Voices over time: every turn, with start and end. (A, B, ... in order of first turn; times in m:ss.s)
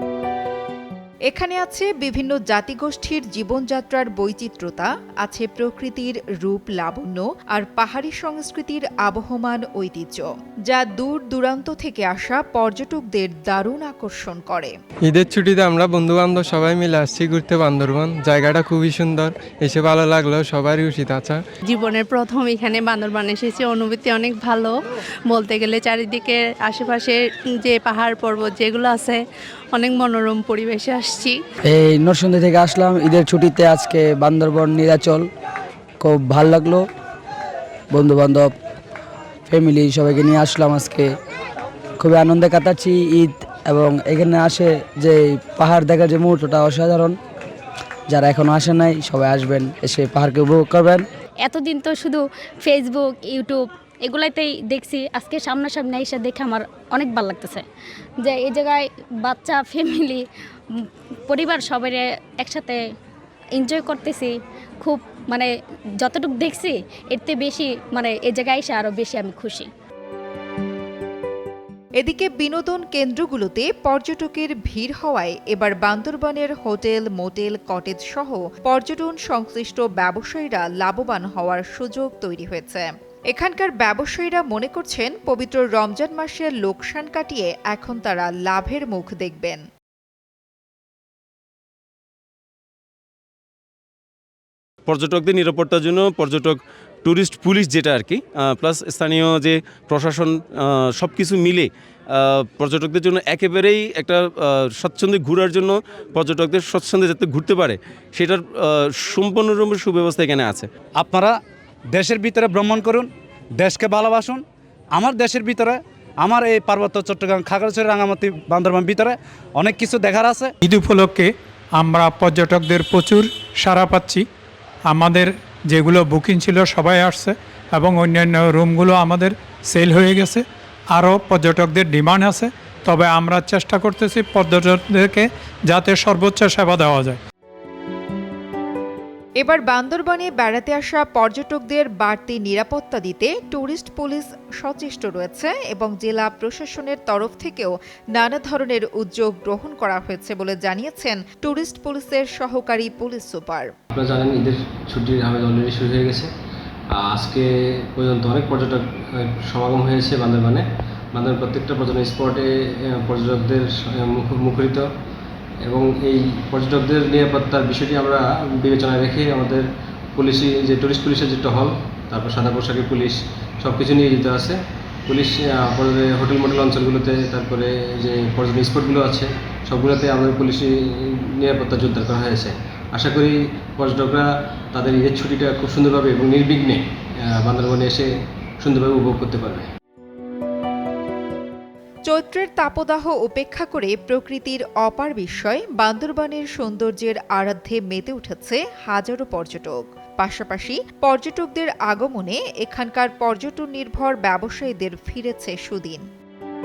0:01.3-0:14.7 A
0:15.1-0:21.4 B
0:21.7-0:24.7 C
0:25.3-0:29.2 C
0:29.7-0:31.4 C
0:31.6-0:35.3 D
0:36.0-0:36.8 D
0:37.9-0:38.5 D
0:39.5-0:41.1 D
0:42.0-0:47.2 D
0:48.1-0:51.0 D
0:51.4-0:57.6 E
0:58.2-1:00.2 E
1:00.7-1:02.8 E
1:03.6-1:05.5 E
1:06.0-1:09.7 E
1:12.0-1:29.6 A
1:34.8-1:50.7 F
1:51.0-1:51.3 G
1:52.0-1:53.0 G
1:53.6-1:54.3 G
1:55.0-1:55.7 G
1:56.2-2:00.5 G
2:00.6-2:04.2 H
2:04.9-2:10.4 H
2:10.9-2:17.2 H
2:19.4-2:33.7 A
2:33.9-2:36.3 I
2:36.9-2:44.9 I
2:45.6-3:08.1 I
3:08.6-3:09.7 I
3:12.1-3:26.0 A